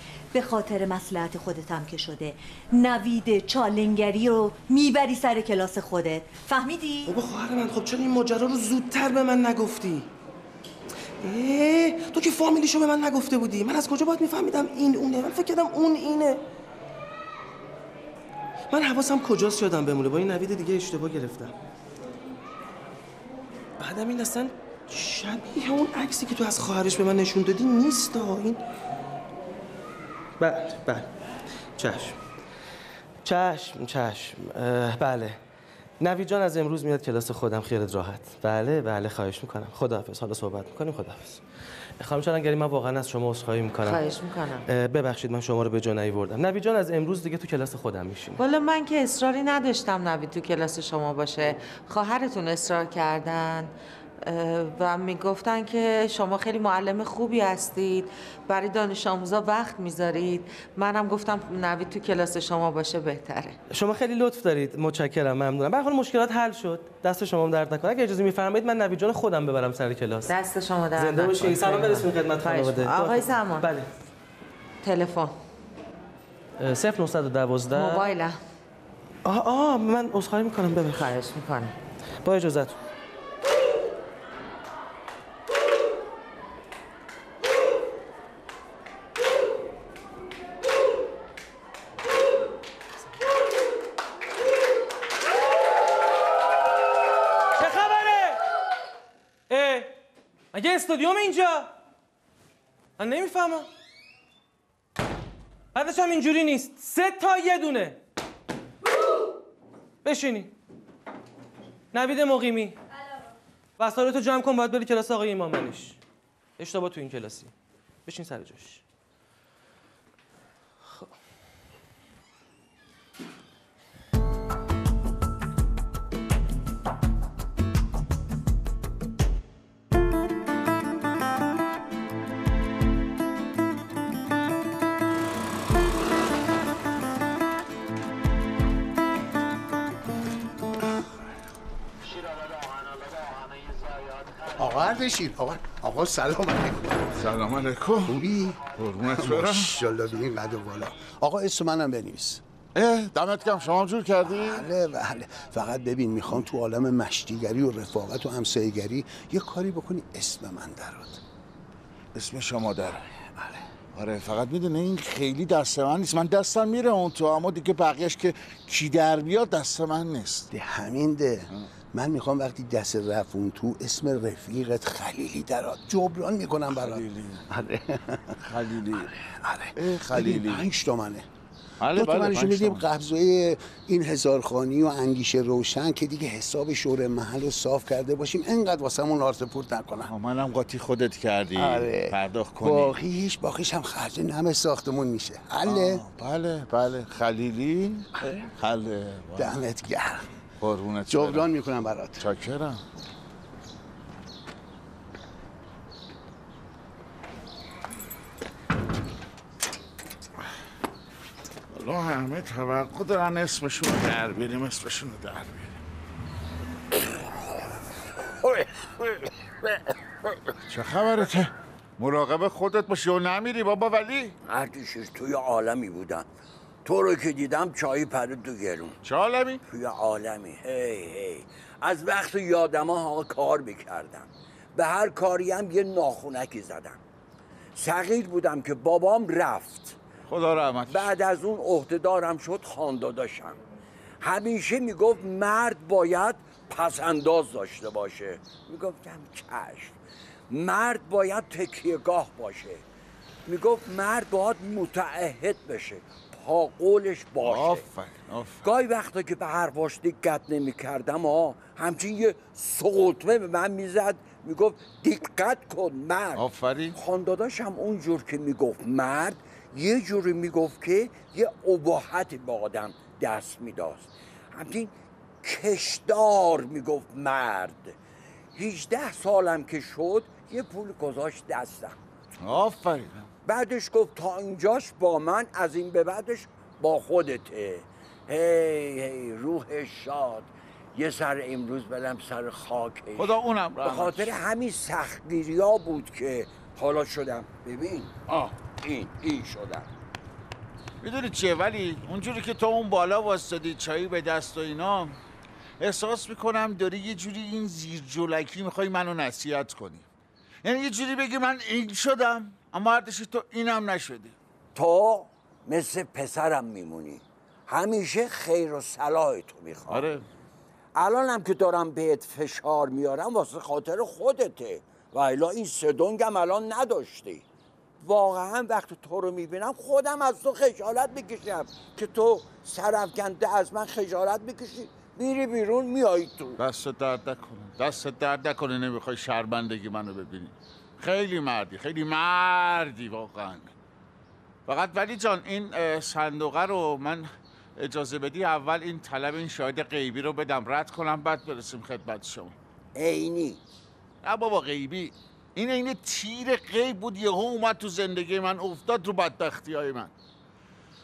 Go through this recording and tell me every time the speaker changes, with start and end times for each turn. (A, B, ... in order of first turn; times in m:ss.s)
0:00.3-0:07.1 A
0:07.0-0:10.1 B
0:11.2-0:16.4 B
0:18.7-0:21.5 B
0:23.8-0:28.6 B
0:30.4-0:31.1 B
0:31.8-0:32.2 B
0:33.2-0:35.4 B
0:36.0-0:41.4 B
0:42.0-0:44.1 B
0:43.8-0:44.6 C
0:44.6-0:48.4 B
0:48.4-1:03.6 C
1:03.7-1:10.3 B
1:10.3-1:13.6 C
1:11.0-1:13.9 B
1:14.8-1:15.3 C
1:16.6-1:18.0 B
1:17.7-1:18.4 C
1:19.2-1:21.1 B
1:20.9-1:21.8 C
1:22.2-1:22.8 B
1:37.6-1:38.4 B
1:39.5-1:39.9 B
1:40.5-1:41.7 B
1:43.0-1:43.7 B
1:45.7-1:48.0 B
1:50.0-1:50.5 B
1:51.9-1:52.8 B
1:53.8-1:56.0 B
1:56.6-1:57.5 B
1:58.0-1:58.8 B
2:24.6-2:27.1 D
2:27.2-2:28.1 E
2:28.1-2:32.4 D
2:28.8-2:29.7 E
2:32.7-2:34.6 E
2:34.2-2:41.2 D
2:42.1-2:43.0 E
2:43.9-2:50.5 E
2:50.5-2:59.1 D
2:56.7-2:57.4 E
2:58.5-2:59.1 E
2:59.8-3:00.6 E
2:59.9-3:01.2 D
3:01.8-3:02.9 E
3:01.9-3:10.1 D
3:10.0-3:13.0 E
3:11.6-3:16.0 D
3:15.6-3:19.5 E
3:19.4-3:20.2 D
3:20.6-3:21.5 E
3:21.1-3:22.2 D
3:22.2-3:22.8 E
3:31.7-3:35.8 E
3:38.4-3:39.2 F
3:40.7-3:44.3 E
3:44.5-3:46.2 F
3:46.8-3:49.0 F
3:49.0-3:49.6 E
3:49.7-3:57.0 F
3:57.8-4:00.0 F
4:00.3-4:01.1 E
4:00.9-4:03.6 F
4:04.2-4:10.0 F
4:10.5-4:12.8 F
4:13.4-4:17.8 F
4:17.4-4:18.6 E
4:18.6-4:38.0 F
4:26.3-4:27.0 E
4:38.5-4:42.0 F
4:42.4-4:43.3 E
4:43.4-4:59.9 F
4:53.2-4:54.3 E
5:01.0-5:05.2 E
5:05.8-5:10.0 E
5:10.6-5:14.4 E
5:14.7-5:20.0 F
5:19.9-5:20.2 E
5:21.0-5:27.4 F
5:28.0-5:36.6 F
5:36.6-5:43.7 E
5:44.7-5:52.5 E
5:53.0-5:53.6 F
5:54.2-6:00.1 E